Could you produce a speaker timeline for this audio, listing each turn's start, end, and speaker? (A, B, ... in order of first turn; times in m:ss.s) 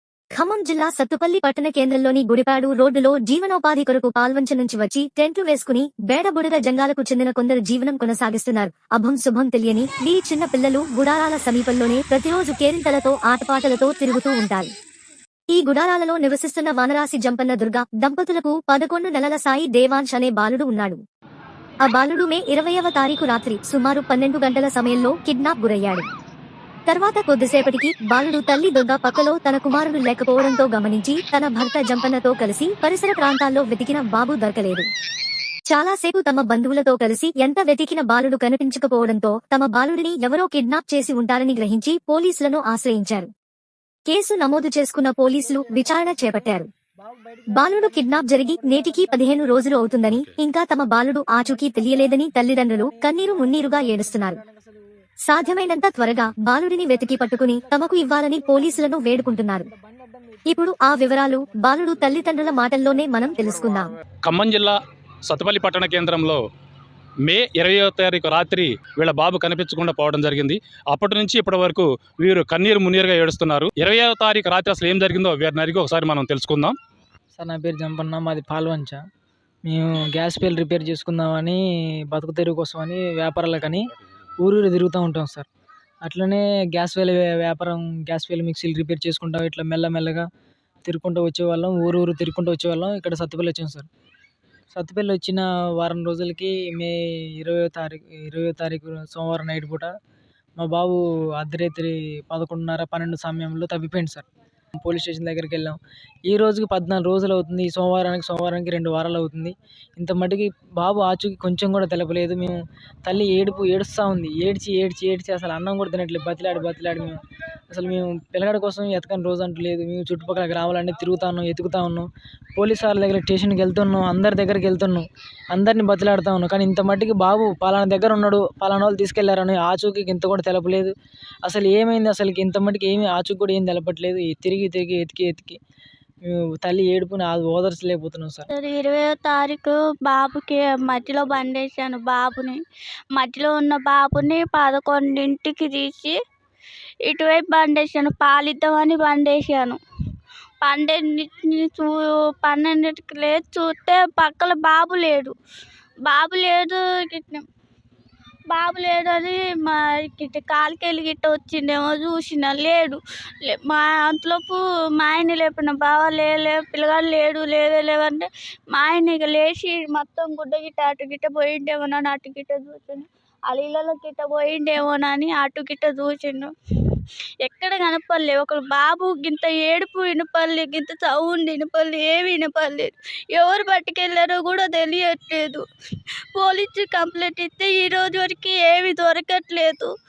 0:00.3-0:14.7 A
0:15.5-0:21.0 A
0:21.8-0:26.1 A
0:26.9-0:34.9 A
0:35.7-0:43.3 A
0:44.1-0:46.7 A
0:45.3-0:50.0 B
0:47.5-0:54.4 A
0:51.3-0:54.8 B
0:55.3-0:59.7 A
0:55.4-0:55.8 B
0:56.9-1:03.8 B
1:00.5-1:03.9 A
1:04.2-1:06.4 C
1:07.3-1:16.8 C
1:17.4-1:19.0 B
1:19.7-1:23.8 B
1:24.4-1:25.5 B
1:26.0-1:30.3 B
1:30.8-1:33.9 B
1:34.7-1:39.9 B
1:40.6-1:44.3 B
1:44.8-2:15.6 B
2:16.2-2:18.5 B
2:18.5-2:22.6 D
2:23.2-2:26.2 D
2:27.1-2:29.8 D
2:30.6-2:35.4 D
2:36.1-2:37.4 D
2:38.5-3:05.6 D
3:06.4-3:09.9 D